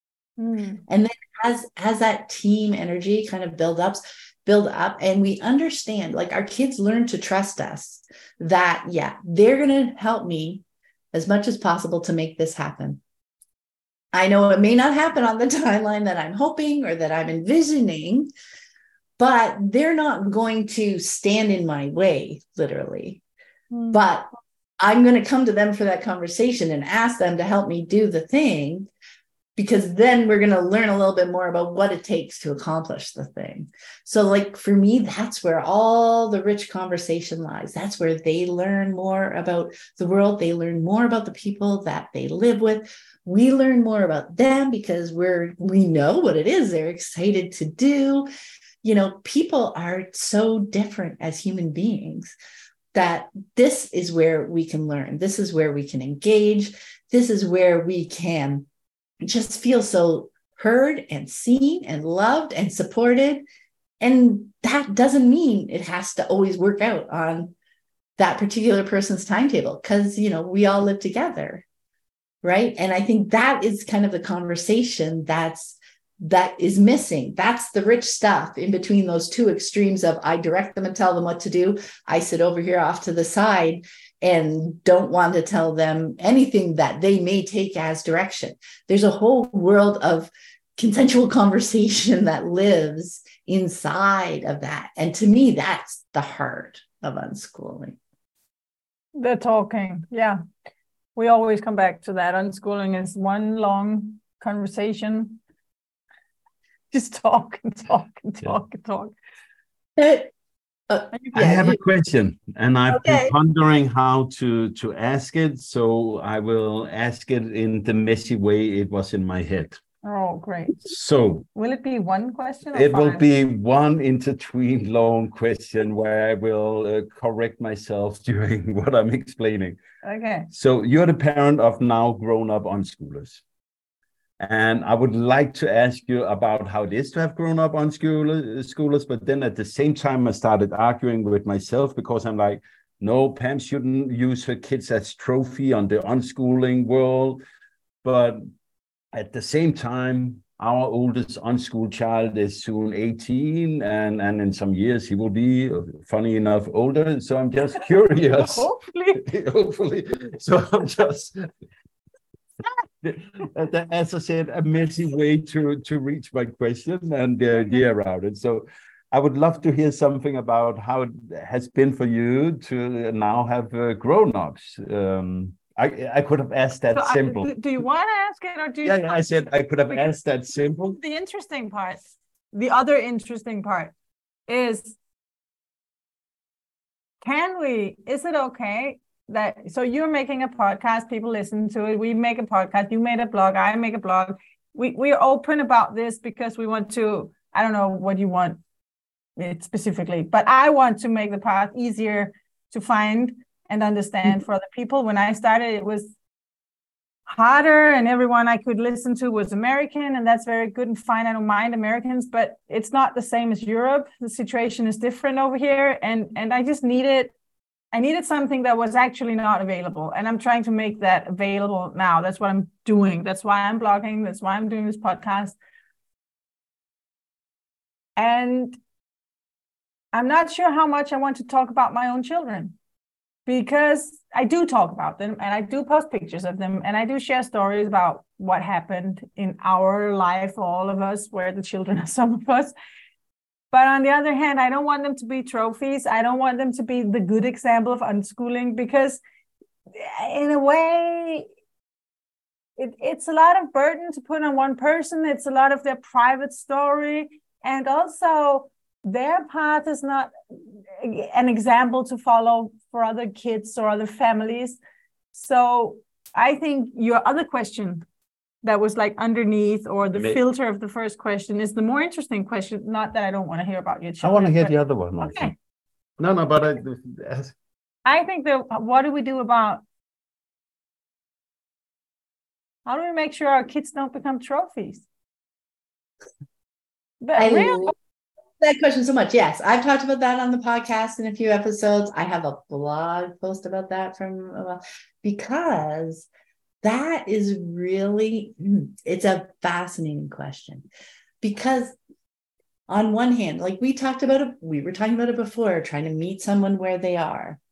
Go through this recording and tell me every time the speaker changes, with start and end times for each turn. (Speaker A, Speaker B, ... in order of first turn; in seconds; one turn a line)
Speaker A: 0.4-0.8
Speaker B: 0.9-13.0
Speaker B: 14.1-18.3
Speaker B: 19.2-23.2
Speaker A: 23.7-24.1
Speaker B: 23.9-24.3
Speaker B: 24.8-28.9
Speaker B: 29.6-48.3
Speaker B: 48.8-52.3
Speaker B: 52.9-58.6
Speaker B: 59.2-63.4
Speaker B: 64.0-67.5
Speaker B: 68.2-71.6
Speaker B: 72.4-98.0
Speaker A: 99.1-100.4
Speaker A: 101.2-105.4
Speaker A: 106.9-109.1
Speaker B: 110.0-110.3
Speaker B: 110.9-111.8
Speaker C: 111.3-119.8
Speaker B: 112.9-113.3
Speaker A: 120.0-120.8
Speaker C: 120.8-121.5
Speaker A: 121.5-123.2
Speaker C: 122.7-129.8
Speaker A: 130.0-130.5
Speaker C: 130.5-133.4
Speaker C: 134.4-147.4
Speaker C: 148.0-148.4
Speaker C: 149.1-161.4
Speaker A: 158.3-159.2
Speaker C: 163.0-177.5
Speaker A: 176.9-179.3
Speaker C: 178.8-181.0
Speaker A: 179.9-180.1
Speaker A: 180.7-183.9
Speaker A: 184.5-184.9
Speaker A: 187.2-198.6
Speaker A: 199.4-206.1
Speaker A: 207.3-217.3
Speaker A: 217.9-225.6
Speaker A: 228.2-228.8
Speaker A: 230.1-232.7
Speaker A: 233.4-242.7
Speaker A: 243.7-249.2
Speaker A: 249.9-251.5
Speaker A: 252.8-260.3
Speaker A: 260.9-264.8
Speaker A: 265.3-268.0
Speaker A: 268.6-275.5
Speaker C: 270.1-270.4
Speaker C: 274.2-275.5
Speaker C: 276.2-277.5
Speaker A: 278.0-279.8
Speaker A: 282.9-285.0
Speaker A: 287.2-287.9
Speaker B: 287.4-287.9
Speaker B: 288.6-296.3
Speaker B: 296.8-300.9
Speaker B: 301.4-301.9
Speaker B: 302.9-307.6